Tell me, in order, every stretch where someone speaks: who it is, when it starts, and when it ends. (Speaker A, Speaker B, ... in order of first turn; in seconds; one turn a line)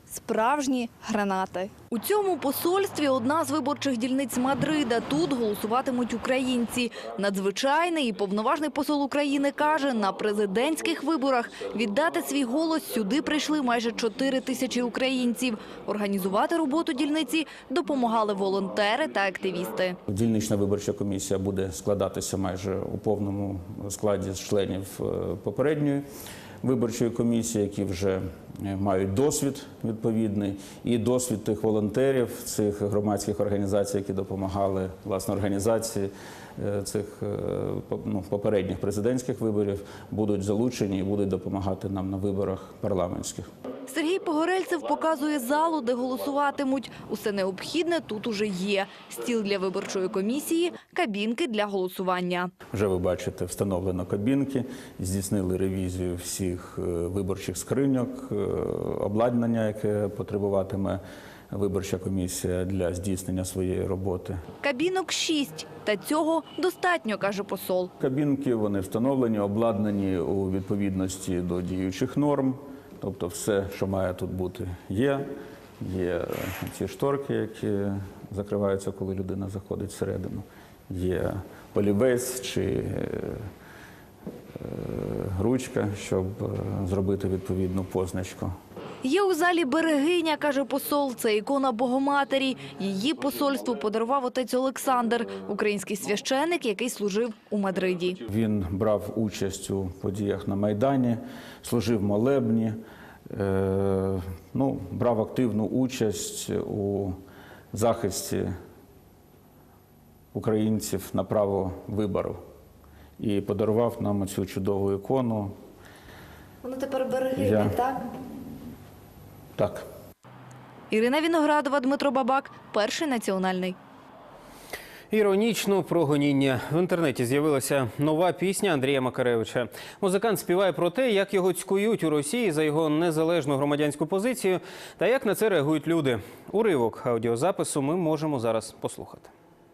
Speaker A: 1.9-19.9
Speaker B: 20.1-26.0
Speaker B: 26.6-43.5
Speaker A: 43.9-52.5
Speaker B: 52.7-64.4
Speaker A: 64.6-67.9
Speaker B: 68.0-75.3
Speaker B: 75.8-83.5
Speaker B: 84.5-88.5
Speaker A: 89.0-98.2
Speaker B: 98.2-102.8
Speaker B: 103.3-107.2
Speaker B: 107.7-108.5
Speaker B: 110.3-112.4
Speaker B: 113.2-115.5
Speaker B: 117.3-117.8
Speaker B: 119.6-119.8
Speaker A: 120.9-123.7
Speaker C: 125.1-139.3